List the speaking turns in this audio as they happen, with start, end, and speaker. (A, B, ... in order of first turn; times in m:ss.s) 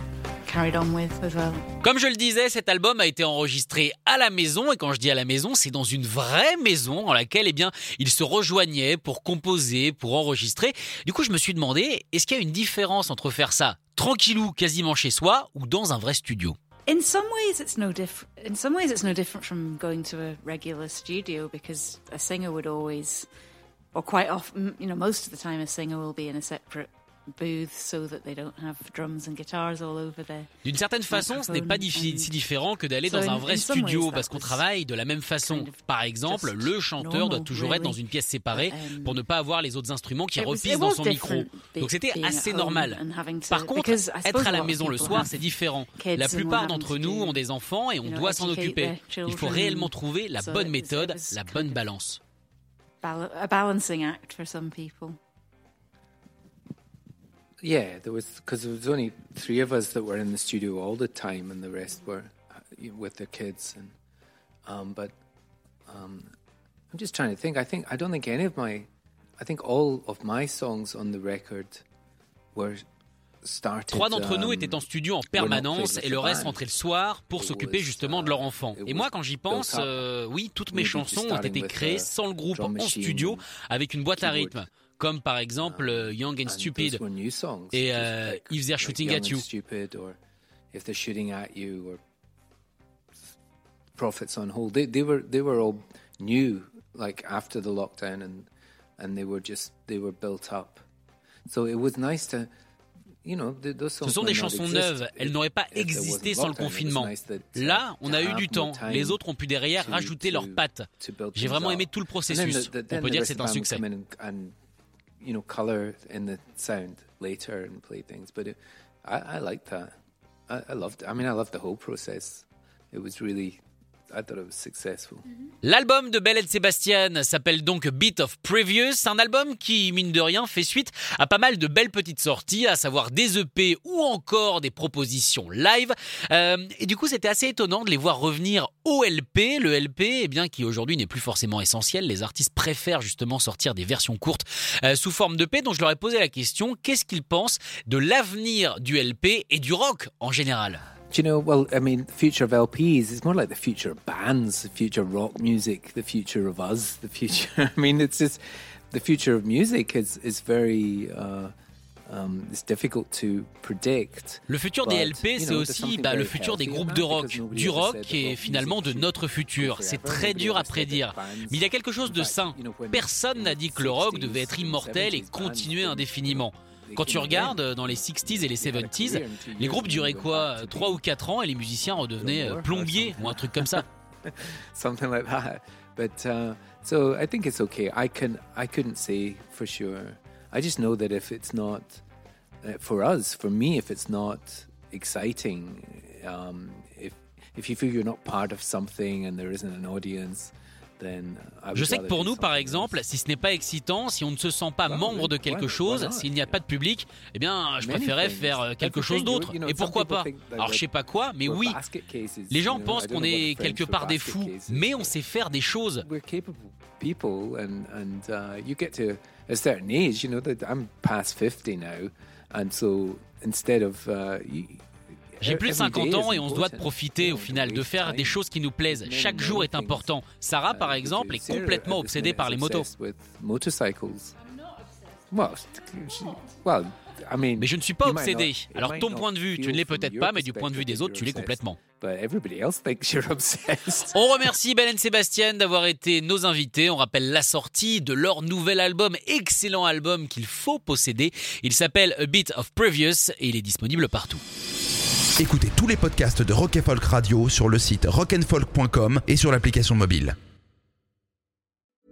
0:00.4-0:01.6 A
0:01.8-0:16.6 B
0:16.9-0:23.3 A
0:23.9-0:30.5 A
0:30.6-0:52.2 B
0:31.1-0:32.3 A
0:33.0-0:34.7 A
0:35.4-0:39.2 A
0:40.4-0:47.4 A
0:48.0-0:51.9 A
0:53.0-0:55.2 A
0:57.6-1:04.0 C
1:04.7-1:05.2 C
1:05.9-1:06.3 C
1:06.9-1:11.8 C
1:12.5-1:12.8 C
1:13.4-1:16.6 C
1:13.9-1:27.0 B
1:17.4-1:20.1 C
1:20.7-1:23.4 C
1:24.2-1:24.6 C
1:25.6-1:30.2 C
1:27.7-1:29.4 B
1:30.7-1:32.0 C
1:34.0-1:40.8 C
1:41.5-1:42.5 C
1:43.2-1:49.2 C
1:44.0-1:53.8 B
1:49.8-1:54.6 C
1:55.2-1:59.9 C
2:00.5-2:05.2 C
2:05.6-2:30.8 B
2:31.1-2:38.4 C
2:38.9-2:41.5 C
2:42.1-3:01.0 C
2:44.5-3:03.9 B
3:02.2-3:12.0 C
3:12.6-3:23.0 C
3:21.7-3:31.8 B
3:24.9-3:26.6 C
3:27.8-3:30.9 C
3:31.4-3:35.2 C
3:32.5-3:36.0 B
3:36.0-3:50.1 C
3:45.4-3:52.9 B
3:50.7-3:54.4 C
3:55.3-4:04.4 C
3:57.6-4:01.8 B
4:04.2-4:14.4 B
4:15.4-4:20.4 D